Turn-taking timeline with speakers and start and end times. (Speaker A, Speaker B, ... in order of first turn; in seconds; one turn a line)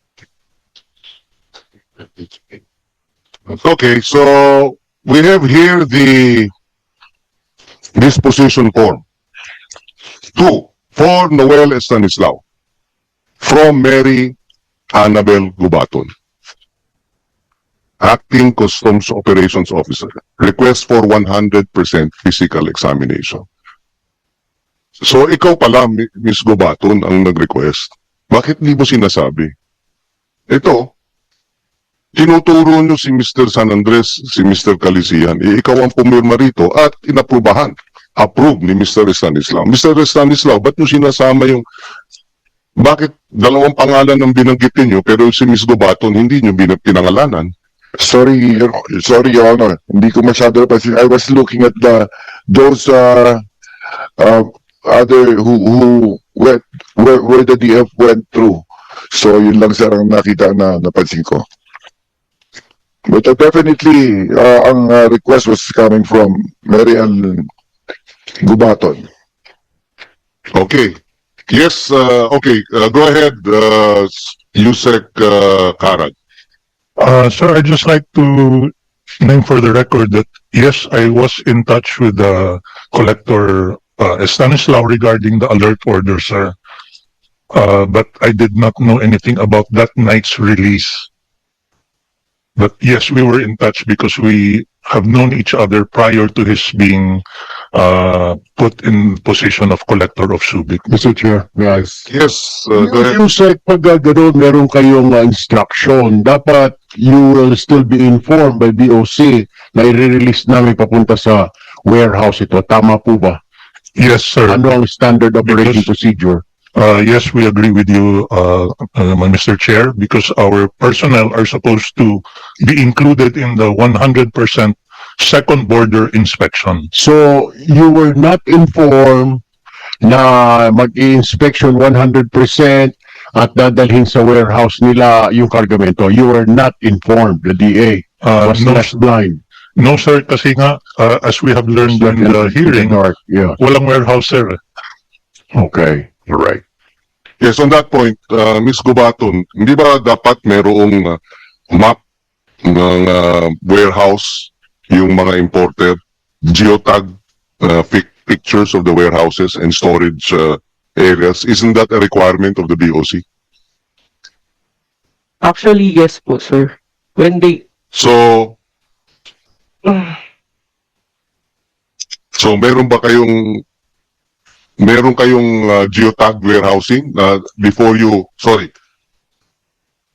Speaker A: 3.6-6.5
Speaker A: 7.9-9.0
Speaker A: 10.3-12.4
Speaker A: 13.4-14.3
Speaker A: 14.9-16.1
Speaker A: 18.0-23.4
Speaker A: 25.0-29.5
Speaker A: 30.5-30.9
Speaker A: 32.1-41.6
Speaker A: 42.8-47.5
Speaker B: 48.0-53.4
Speaker B: 54.2-61.5
Speaker B: 63.1-67.5
Speaker B: 68.4-69.1
Speaker A: 70.5-70.9
Speaker A: 71.5-76.1
Speaker C: 77.0-86.5
Speaker C: 87.5-91.1
Speaker C: 92.6-97.2
Speaker C: 97.7-100.9
Speaker D: 100.9-102.0
Speaker A: 102.1-103.2
Speaker D: 102.7-113.4
Speaker C: 114.0-114.7
Speaker D: 114.5-116.4
Speaker C: 115.4-115.9
Speaker C: 116.7-126.9
Speaker D: 126.9-129.4
Speaker D: 130.0-139.4
Speaker C: 138.2-139.0
Speaker C: 139.8-144.6
Speaker D: 141.9-143.6
Speaker D: 145.5-146.6
Speaker A: 147.4-151.2
Speaker A: 151.7-152.0
Speaker A: 152.6-163.2
Speaker E: 165.4-167.6
Speaker A: 167.9-168.6
Speaker A: 172.4-173.6
Speaker A: 174.8-178.7